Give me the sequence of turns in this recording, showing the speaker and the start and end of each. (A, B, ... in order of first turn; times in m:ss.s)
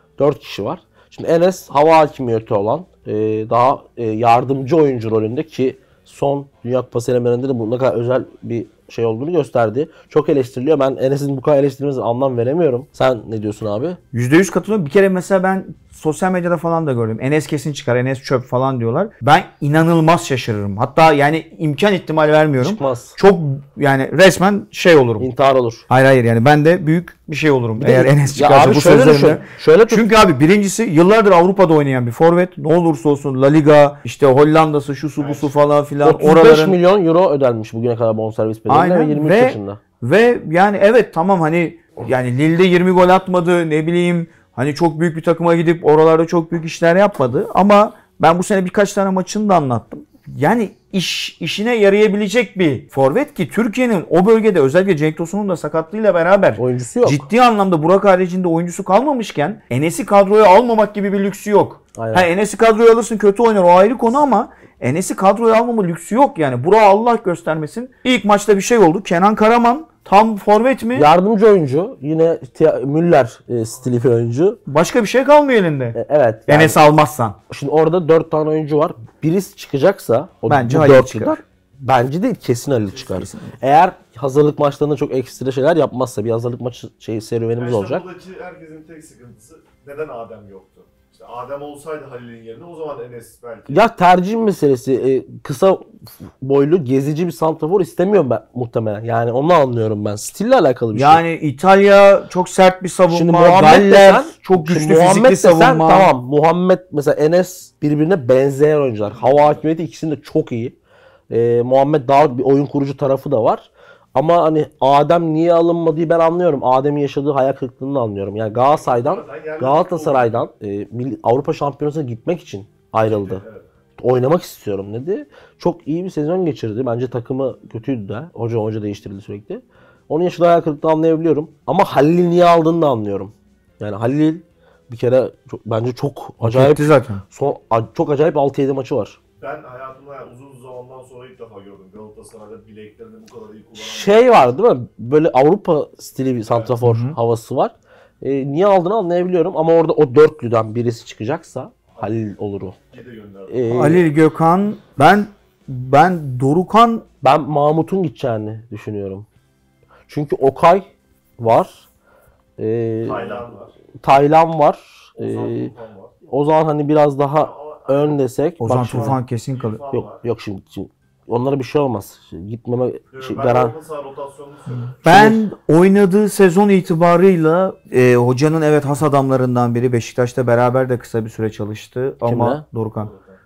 0:00.2-0:14.0 A
0:14.1-0:25.3 B
0:22.6-0:23.2 A
0:25.2-0:25.8 A
0:25.9-0:36.8 B
0:27.8-0:30.1 A
0:35.2-0:35.5 C
0:36.0-0:39.8 A
0:38.7-1:11.1 B
0:56.6-0:57.3 A
1:02.0-1:02.3 A
1:10.9-1:14.6 A
1:14.7-1:17.4 B
1:15.9-1:16.8 A
1:17.5-1:28.0 A
1:20.5-1:21.4 B
1:23.0-1:23.5 B
1:27.6-1:33.8 C
1:33.7-1:41.2 A
1:40.9-1:46.1 B
1:43.1-1:50.8 A
1:49.1-1:49.6 C
1:51.3-2:03.4 A
1:58.5-2:00.5 C
2:03.0-2:03.6 C
2:04.0-2:19.2 A
2:16.4-2:17.2 B
2:19.4-2:24.4 C
2:23.8-2:32.8 A
2:26.4-2:26.8 C
2:26.8-2:27.2 B
2:32.0-2:32.2 C
2:32.9-2:33.7 C
2:33.5-2:34.0 A
2:33.7-2:37.1 B
2:37.2-2:39.3 A
2:40.1-2:41.9 A
2:42.6-2:43.4 A
2:43.0-2:43.7 C
2:44.0-2:45.7 A
2:45.2-2:46.1 C
2:46.3-2:49.2 A
2:47.4-2:48.2 C
2:48.6-2:49.8 B
2:48.9-2:50.3 C
2:49.9-2:53.8 A
2:53.1-2:55.0 C
2:55.0-3:03.1 B
2:55.1-2:55.4 A
3:02.3-3:02.6 A